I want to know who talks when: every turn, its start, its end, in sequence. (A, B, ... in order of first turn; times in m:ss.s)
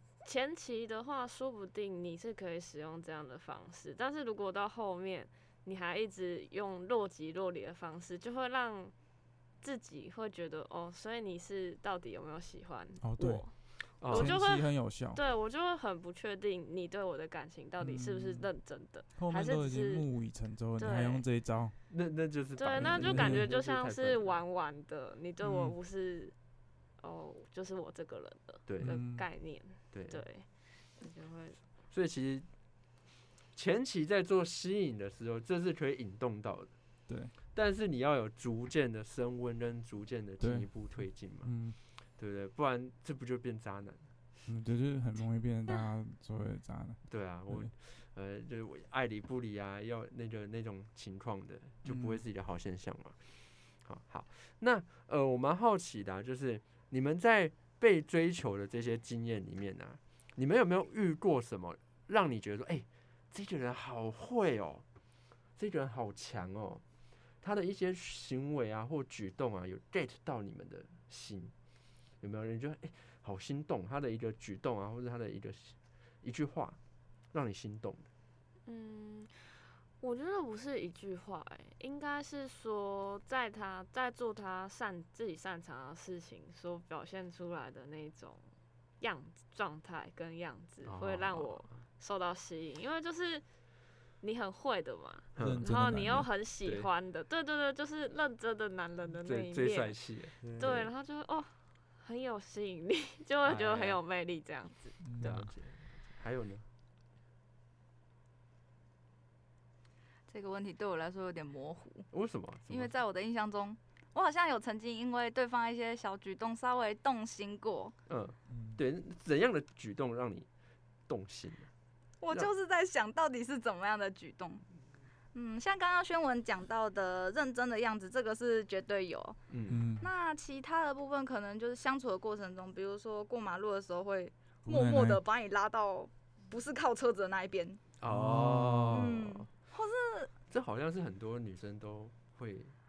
0:00.2-0:08.9 A
0:09.6-0:20.0 A
0:13.0-0:15.2 B
0:14.0-0:14.4 C
0:17.8-0:18.5 B
0:19.1-0:21.7 B
0:20.8-0:21.2 A
0:21.9-0:24.4 C
0:22.6-0:26.3 A
0:22.8-0:23.5 B
0:25.4-0:25.8 B
0:27.0-0:31.6 A
0:28.7-0:29.0 C
0:28.8-0:29.2 B
0:29.9-0:30.2 C
0:31.9-0:32.5 C
0:33.5-0:36.7 C
0:37.1-0:37.3 B
0:37.5-0:44.1 C
0:40.4-0:41.8 B
0:44.4-0:47.7 B
0:47.1-1:04.8 C
0:51.8-0:52.2 B
1:05.6-1:06.8 C
1:07.4-1:11.5 C
1:12.2-1:16.8 C
1:17.3-1:18.1 C
1:18.6-1:28.4 A
1:29.0-1:33.4 A
1:30.8-1:31.8 C
1:34.2-1:45.3 A
1:35.3-1:35.7 C
1:35.4-1:36.3 B
1:36.6-1:36.9 C
1:39.2-1:40.9 C
1:43.4-1:44.0 C
1:45.0-1:45.5 B
1:45.2-1:46.6 C
1:50.3-1:52.1 D
1:52.1-1:52.9 C
1:52.7-1:57.9 D
1:58.1-2:00.5 C
1:58.5-1:58.8 B
2:01.1-2:01.7 C
2:02.2-2:04.6 D
2:05.3-2:09.4 D
2:09.5-2:09.8 C
2:09.7-2:10.1 B
2:10.0-2:17.8 D
2:14.6-2:15.2 B
2:18.0-2:19.5 C
2:18.1-2:19.1 B
2:18.9-2:20.3 D
2:20.5-2:22.7 C